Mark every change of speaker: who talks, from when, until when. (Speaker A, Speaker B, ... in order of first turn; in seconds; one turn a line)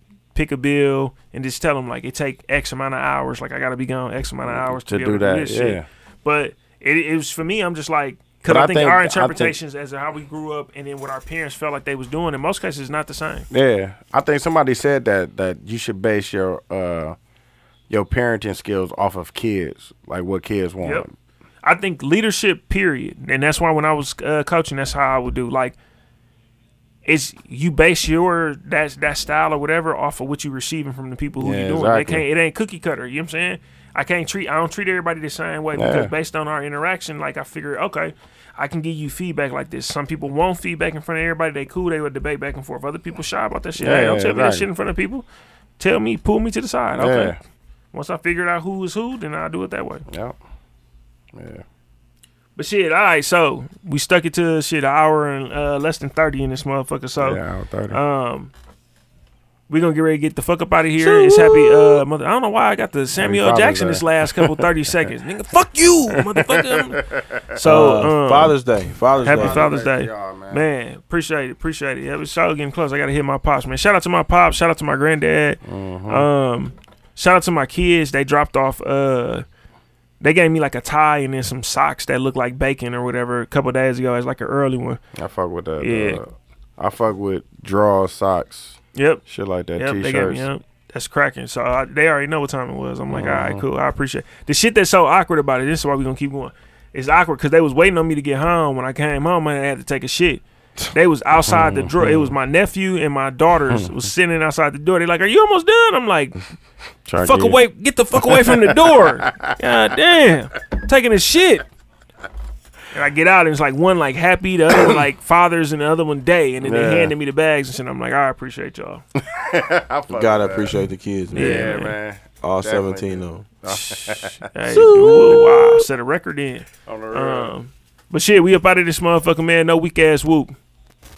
Speaker A: 0.3-13.5
Speaker B: 4.5-5.8
Speaker B: 8.5-9.6
Speaker B: 13.5-17.1
Speaker B: 17.9-21.1
Speaker A: 21.6-25.8
Speaker A: 27.1-45.2
Speaker B: 31.4-32.2
Speaker B: 35.7-36.1
Speaker B: 43.8-44.7
Speaker A: 45.8-47.3
Speaker B: 47.0-47.4
Speaker A: 47.9-50.0
Speaker B: 50.1-50.3
Speaker B: 51.3-51.6
Speaker A: 52.5-57.4
Speaker B: 57.2-58.0
Speaker A: 57.9-58.5
Speaker A: 59.7-67.0
Speaker B: 61.0-62.0
Speaker B: 63.2-64.7
Speaker B: 66.1-68.0
Speaker A: 67.5-68.6
Speaker C: 67.6-69.7
Speaker B: 69.1-70.6
Speaker A: 69.2-79.4
Speaker B: 75.6-76.3
Speaker A: 80.2-85.0
Speaker B: 85.2-90.5
Speaker A: 85.8-86.2
Speaker A: 89.0-89.2
Speaker A: 89.8-106.4
Speaker B: 93.1-93.6
Speaker B: 101.5-102.3
Speaker B: 103.7-104.0
Speaker B: 107.0-107.6
Speaker A: 107.2-111.7
Speaker B: 108.1-109.5
Speaker A: 112.9-119.0
Speaker B: 116.6-117.1
Speaker B: 119.2-120.8
Speaker C: 120.1-121.8
Speaker A: 121.3-122.0
Speaker B: 121.3-125.1
Speaker C: 122.4-123.5
Speaker A: 123.7-130.6
Speaker C: 124.7-125.8
Speaker B: 126.9-127.5